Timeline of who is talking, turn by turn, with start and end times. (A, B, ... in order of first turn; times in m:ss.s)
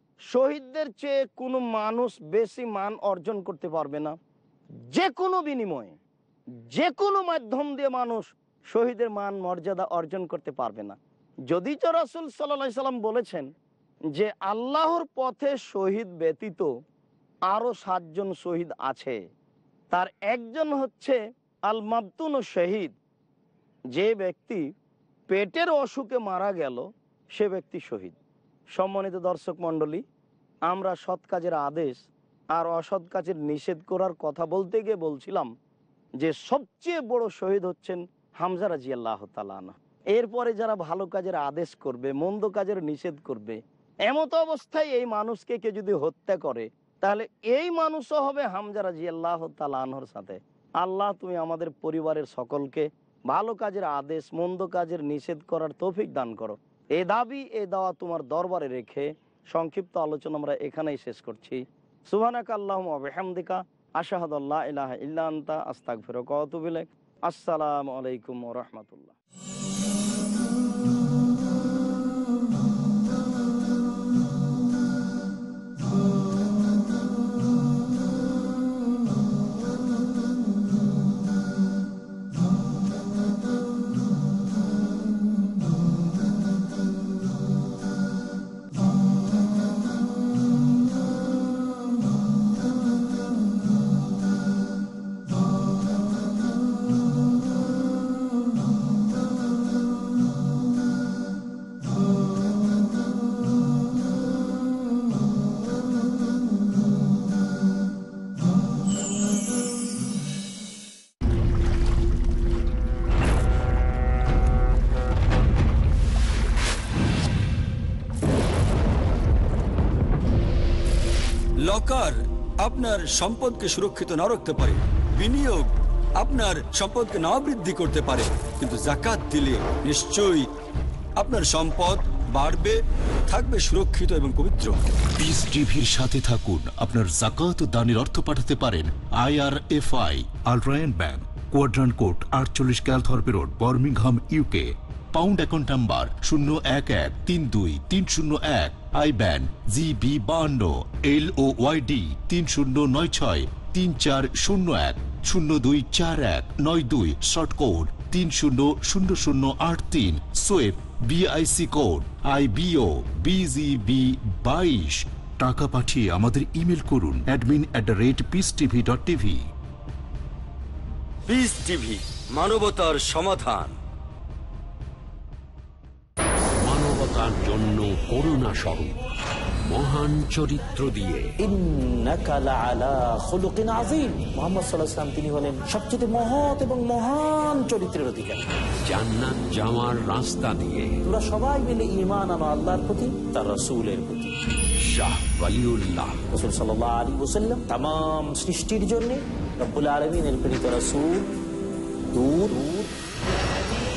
0:00.3-0:04.2 A
0:04.9-0:06.0 A
0:06.7-0:13.5 A
0:14.1-0:16.7 A
0:17.5-0:19.2 A
0:19.9-0:22.9 A
0:23.9-0:24.6 A
0:25.3-0:28.2 A
0:28.8-0:30.0 A
0:30.7-0:35.5 A
0:36.2-1:09.2 A
2:01.6-2:10.5 B
2:11.2-2:14.8 B
2:15.2-2:49.4 C
2:51.3-2:53.8 B
2:56.6-2:59.0 D
2:59.6-3:01.3 D
3:01.4-3:08.5 E
3:08.8-3:11.0 D
3:11.0-3:14.3 E
3:14.8-3:16.2 D
3:16.3-3:21.3 E
3:22.1-3:22.9 E